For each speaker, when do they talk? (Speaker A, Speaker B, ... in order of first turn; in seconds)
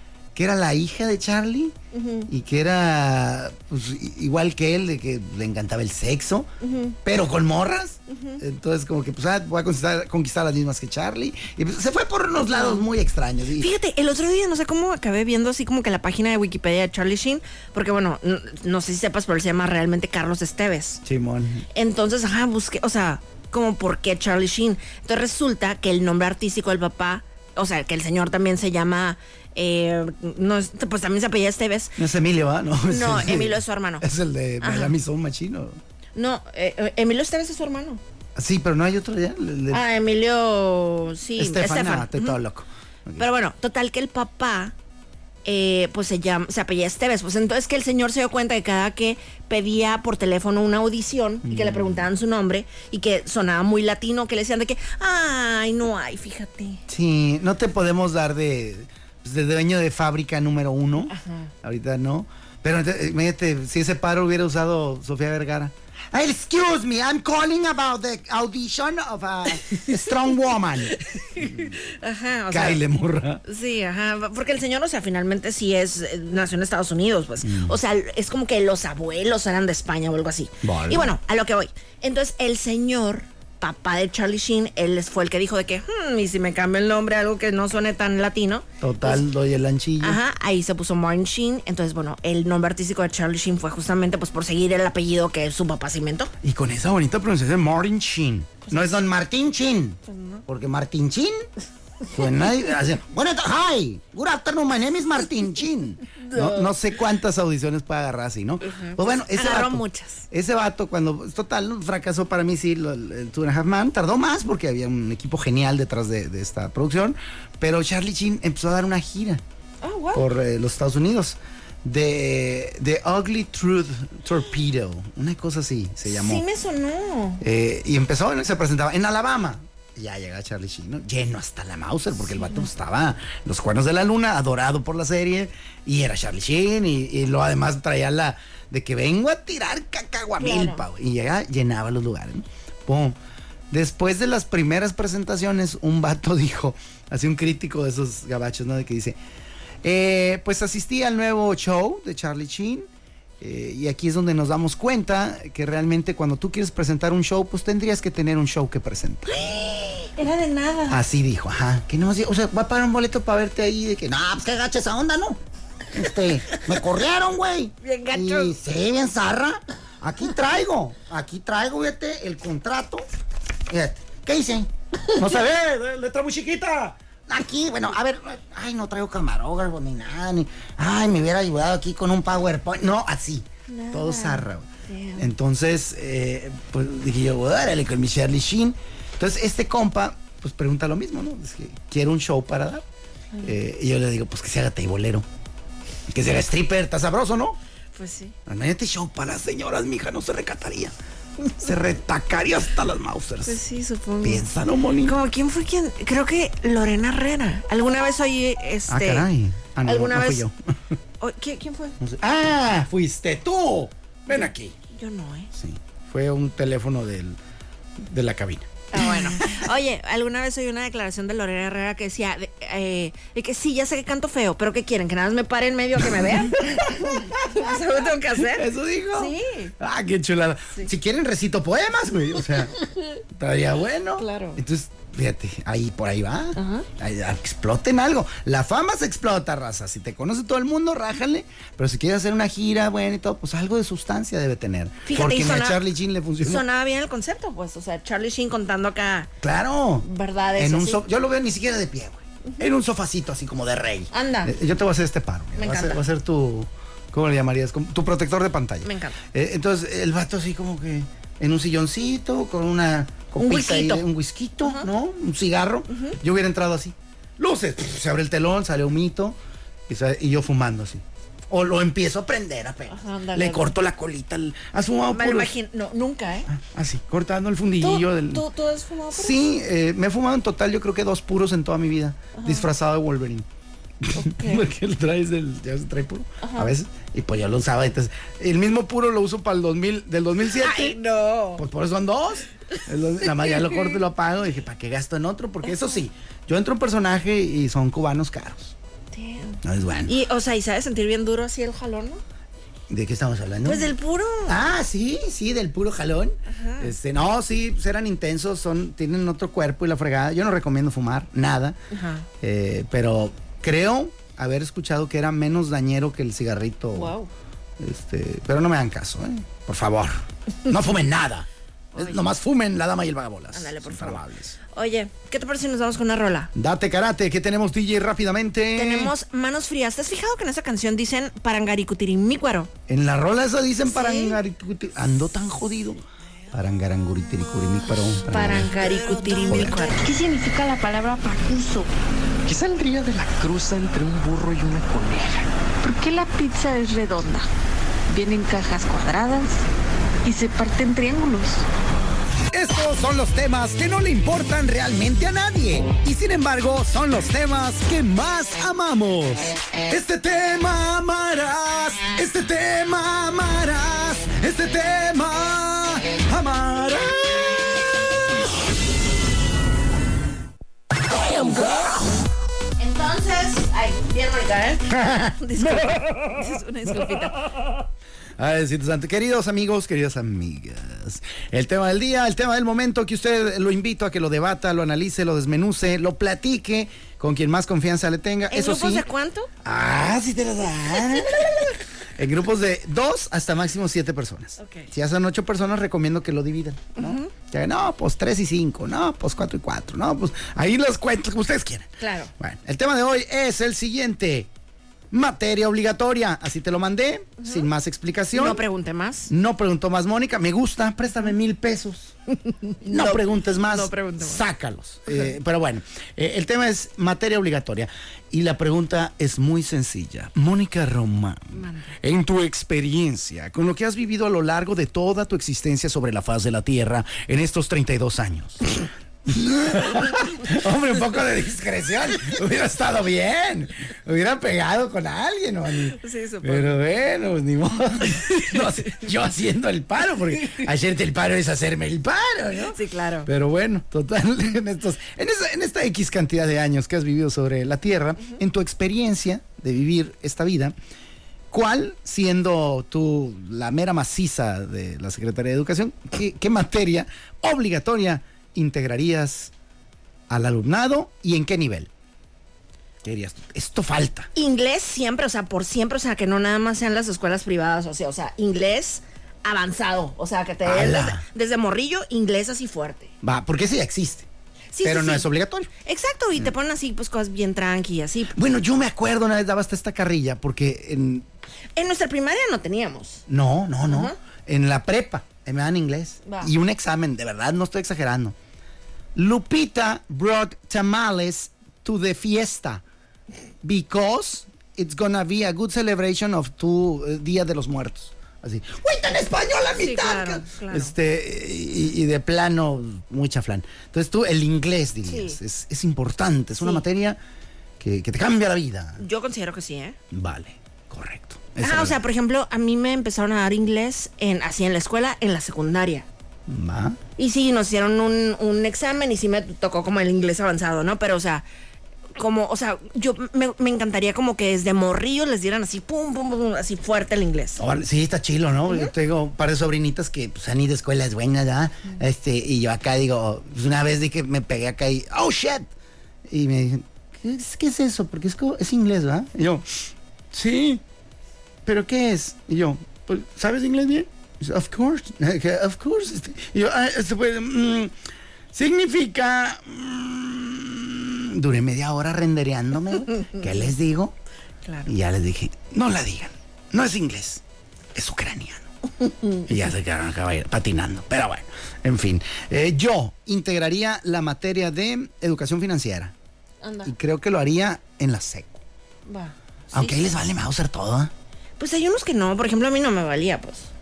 Speaker A: 0.3-1.8, 2.3-6.5, 7.0-13.7, 21.0-21.7, 32.0-35.8, 38.4-39.8, 41.4-43.3, 51.4-52.1, 56.9-71.6, 72.5-73.4, 77.4-77.8, 80.6-81.1, 88.8-90.2, 96.4-101.3, 102.1-119.4, 120.1-126.5, 127.4-143.2, 143.7-149.2, 149.8-152.9, 153.4-159.5, 160.9-164.3, 165.9-167.0, 170.1-170.8, 173.7-174.0, 175.2-177.0, 177.9-178.9, 180.1-181.2, 182.3-192.8, 193.4-195.3, 196.1-197.6, 198.5-200.9, 201.6-203.6, 204.2-205.2, 208.9-210.9, 212.0-214.8, 215.5-217.4, 218.0-219.7, 226.3-227.7, 228.4-232.7, 233.3-246.7, 249.4-269.4, 269.9-275.5, 276.5-278.4, 279.1-283.5, 284.0-291.0, 291.6-298.8, 299.6-300.1, 302.9-303.9, 304.5-311.8, 312.4-317.2, 317.8-324.6, 326.5-329.1, 332.9-338.8, 339.4-339.9, 352.5-367.5, 371.3-371.7, 374.9-376.0, 378.4-389.1, 389.6-391.6, 392.2-404.5, 405.1-408.6, 409.3-412.1, 412.8-450.8, 451.5-459.5, 460.3-461.9, 463.0-464.3, 470.6-471.2, 473.2-474.3, 474.8-475.7, 478.3-481.3, 483.3-488.4, 489.1-492.8, 493.6-507.2, 507.8-509.0, 510.1-512.0, 516.5-517.0, 527.6-535.7, 536.3-540.8, 541.6-548.0, 548.5-554.1, 554.9-557.4, 558.0-558.7, 559.5-566.1, 566.9-568.6, 569.7-571.1
Speaker B: 1.9-2.3, 6.6-7.0, 8.1-8.4, 12.5-12.9, 13.6-21.0, 21.7-32.0, 32.9-34.1, 34.6-35.0, 36.1-38.0, 39.7-42.4, 43.2-44.7, 45.5-56.8, 61.1-61.5, 70.9-72.8, 73.5-89.2, 90.0-96.3, 98.7-99.0, 100.1-100.4, 106.2-106.7, 108.6-110.2, 119.8-120.2, 126.0-127.4, 132.4-132.7, 140.4-140.8, 159.3-161.0, 167.8-168.6, 183.7-185.3, 197.9-198.4, 203.4-204.5, 205.0-209.3, 209.8-210.4, 211.2-212.0, 214.3-215.5, 218.9-229.7, 234.2-234.6, 236.6-236.9, 245.1-245.8, 246.4-249.3, 250.0-251.0, 254.1-254.5, 255.6-256.0, 258.8-259.2, 263.4-264.1, 264.6-264.9, 265.9-266.2, 272.9-273.7, 275.1-276.5, 277.8-279.4, 282.3-282.7, 284.1-284.7, 286.4-286.7, 290.5-291.6, 293.2-294.0, 295.7-296.0, 299.1-302.2, 303.6-304.6, 306.5-306.9, 311.9-312.3, 316.9-317.3, 321.9-322.3, 323.5-326.5, 328.8-332.7, 333.9-334.4, 338.3-340.0, 371.4-371.9, 372.8-377.4, 388.5-389.5, 394.6-394.9, 397.0-397.3, 402.0-402.3, 407.4-407.7, 408.3-409.3, 412.8-414.4, 421.5-421.9, 436.0-436.8, 442.7-443.3, 464.4-473.1, 474.7-475.3, 475.8-478.4, 481.8-483.2, 483.9-484.2, 486.2-486.5, 499.8-500.9, 505.1-505.4, 509.0-510.0, 511.6-516.1, 517.2-521.5, 522.1-527.6, 554.6-554.9, 566.6-566.9, 569.1-570.0, 571.6-573.7
Speaker C: 100.8-101.1, 103.1-105.3, 164.1-165.4, 166.0-173.0, 173.8-174.7, 177.3-182.7
Speaker D: 339.5-341.9, 345.8-347.5, 348.1-349.6, 350.2-351.6
Speaker E: 342.5-345.5